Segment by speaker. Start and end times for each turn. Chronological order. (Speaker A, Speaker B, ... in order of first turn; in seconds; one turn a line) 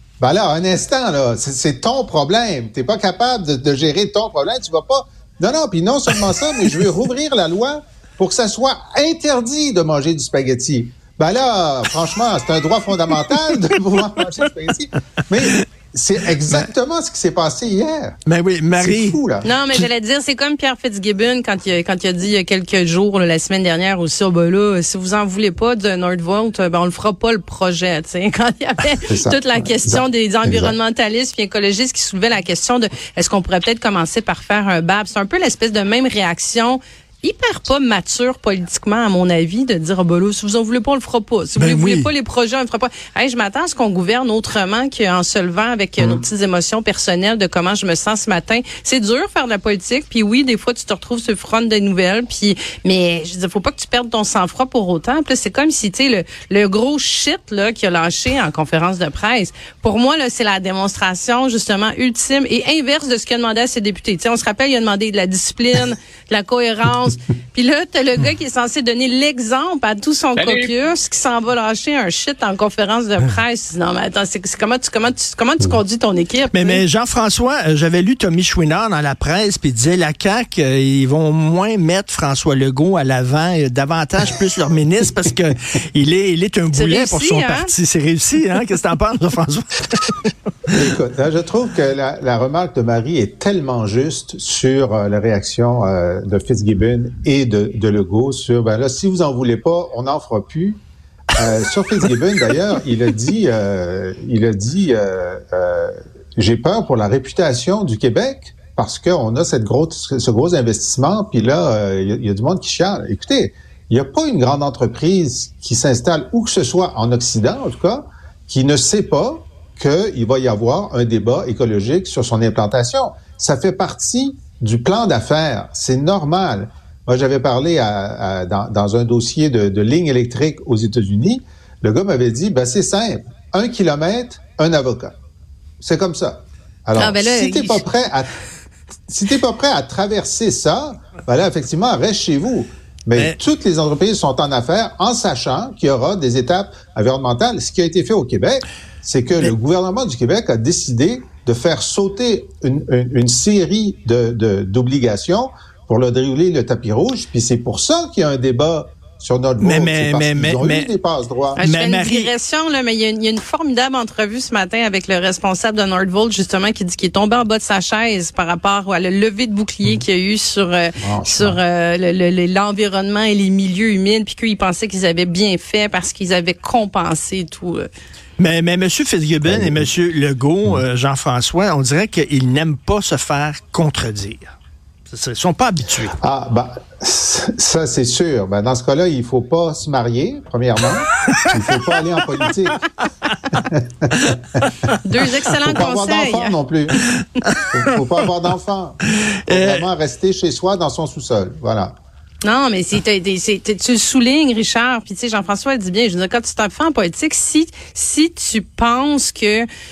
Speaker A: 0.2-18.2
Speaker B: 18.3-19.2
Speaker A: 18.8-19.5
Speaker C: 19.4-76.8
Speaker A: 29.1-30.7
Speaker B: 41.6-42.1
Speaker B: 76.5-90.7
Speaker C: 86.7-87.7
Speaker A: 90.7-100.8
Speaker A: 101.4-135.2
Speaker A: 135.8-138.3
Speaker C: 136.9-137.8
Speaker A: 139.1-161.6
Speaker B: 159.6-160.9
Speaker C: 161.6-177.9
Speaker B: 161.6-162.3
Speaker A: 171.0-171.6
Speaker B: 178.4-184.5
Speaker A: 179.4-179.9
Speaker B: 185.1-186.2
Speaker A: 186.2-192.8
Speaker B: 193.2-193.6
Speaker A: 193.7-194.7
Speaker B: 194.2-195.0
Speaker C: 195.0-196.6
Speaker A: 195.7-197.0
Speaker B: 197.0-197.7
Speaker A: 197.7-202.0
Speaker B: 199.5-199.9
Speaker C: 202.4-209.7